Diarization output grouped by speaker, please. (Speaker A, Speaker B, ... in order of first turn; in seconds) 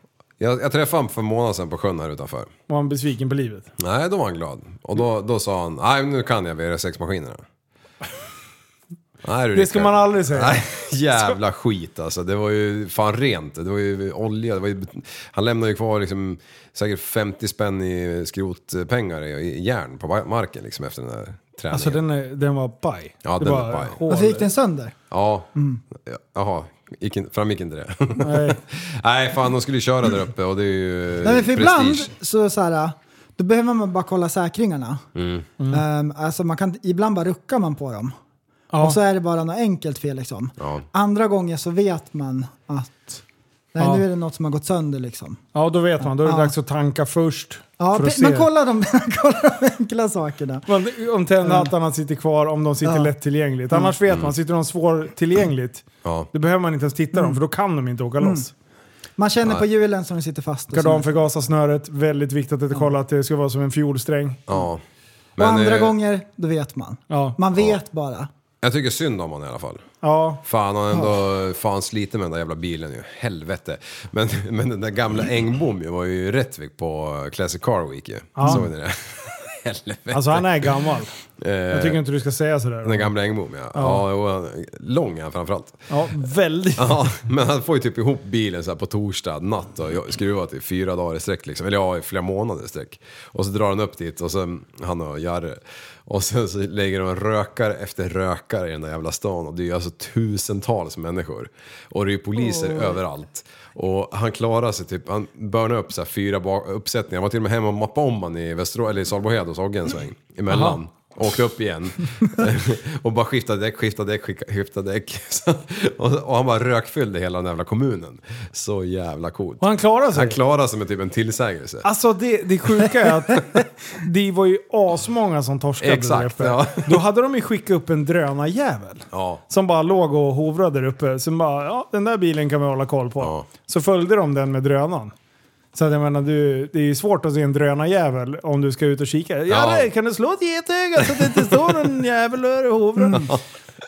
Speaker A: 0.4-2.5, 3.8-7.4, 9.2-22.0, 23.2-24.0, 25.1-32.1, 35.1-35.5, 40.6-40.8, 56.0-56.3, 64.5-64.8, 65.4-65.9, 68.6-69.8, 70.4-80.8, 81.4-82.0, 82.8-85.9, 86.8-121.9, 125.8-127.0, 129.1-129.4, 133.2-133.5, 139.5-139.9, 141.0-141.6, 143.1-143.4
Speaker B: 2.7-3.7, 9.5-11.4, 21.7-24.5, 28.2-28.6, 38.7-39.0, 43.8-44.0, 45.5-48.5, 50.7-58.5, 60.7-64.4, 67.1-67.4, 70.0-70.4, 78.3-78.7, 80.1-81.1, 81.7-83.1, 83.7-84.0, 85.9-87.0, 110.5-110.8, 119.6-120.4, 121.8-135.1, 135.7-143.4
Speaker C: 24.1-24.9, 25.5-25.8, 31.2-35.0, 35.7-38.1, 38.8-43.2, 43.7-45.4, 46.0-46.5, 47.8-50.6, 51.4-51.7, 52.8-53.1, 59.2-61.2, 65.4-68.3